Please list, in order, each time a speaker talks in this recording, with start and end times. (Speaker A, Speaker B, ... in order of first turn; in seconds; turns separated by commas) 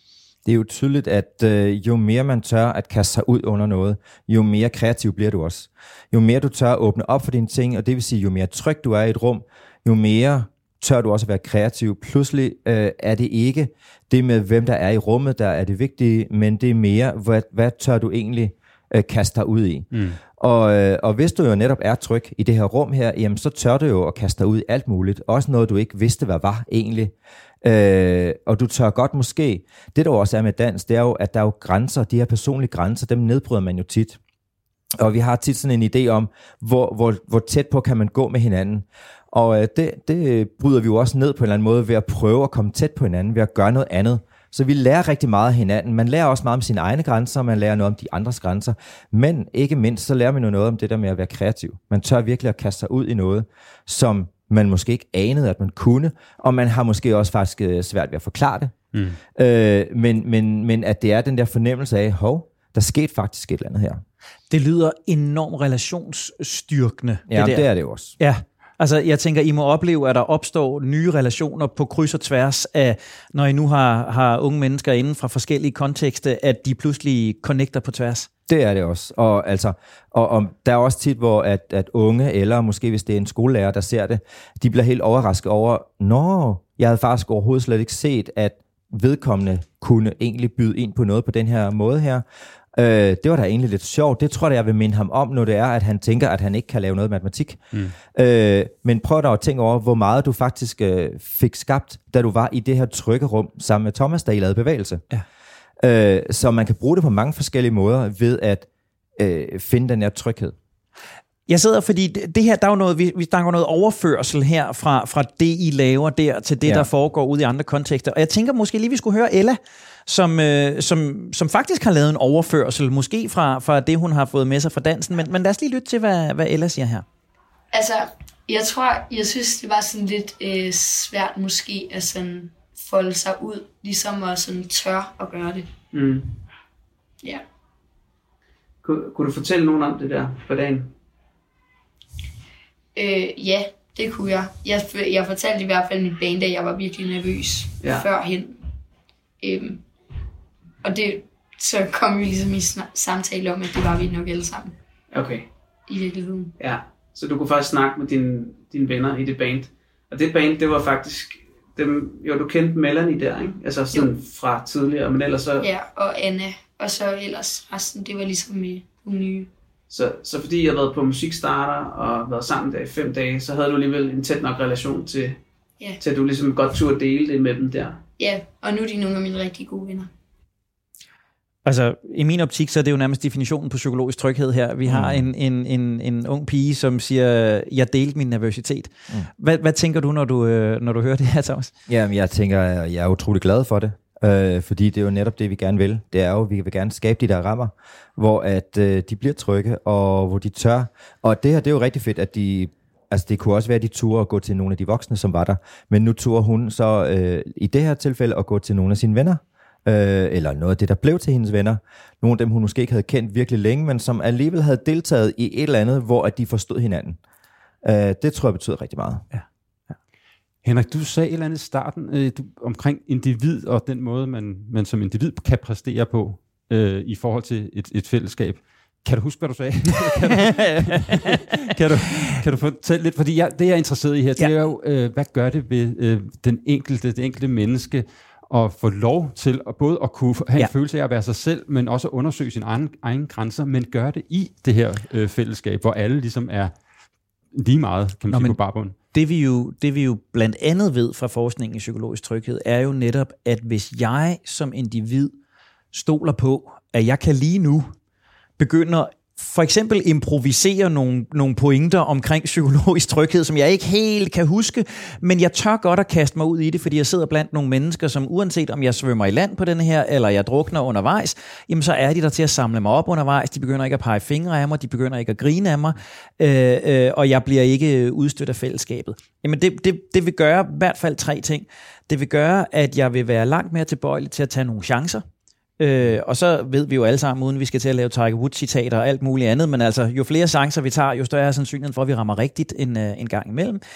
Speaker A: 0.5-19.9, Speaker B: 19.9-20.2, Speaker A: 20.4-34.2, Speaker A: 35.0-58.7, Speaker A: 59.4-64.0, Speaker C: 64.5-78.3, Speaker A: 67.3-68.2, Speaker A: 78.5-105.0, Speaker A: 105.8-110.5, Speaker C: 111.5-127.0, Speaker D: 127.7-135.7, Speaker E: 135.9-136.4, Speaker E: 138.8-140.9, Speaker D: 142.9-148.6, Speaker E: 147.8-148.1, Speaker D: 149.4-149.8, Speaker D: 150.8-154.8, Speaker E: 155.1-155.5, Speaker D: 155.9-156.6, Speaker E: 156.6-165.7, Speaker D: 165.6-169.5, Speaker E: 169.9-175.4, Speaker E: 176.0-178.0, Speaker D: 178.2-180.1, Speaker C: 181.7-191.7, Speaker A: 184.9-185.3, Speaker A: 191.9-217.2, Speaker A: 217.8-219.3, Speaker B: 220.6-246.7, Speaker C: 230.5-231.4, Speaker B: 247.5-248.9, Speaker C: 248.3-248.6, Speaker C: 249.1-255.3, Speaker C: 255.9-257.9, Speaker C: 258.6-285.2, Speaker C: 285.8-293.8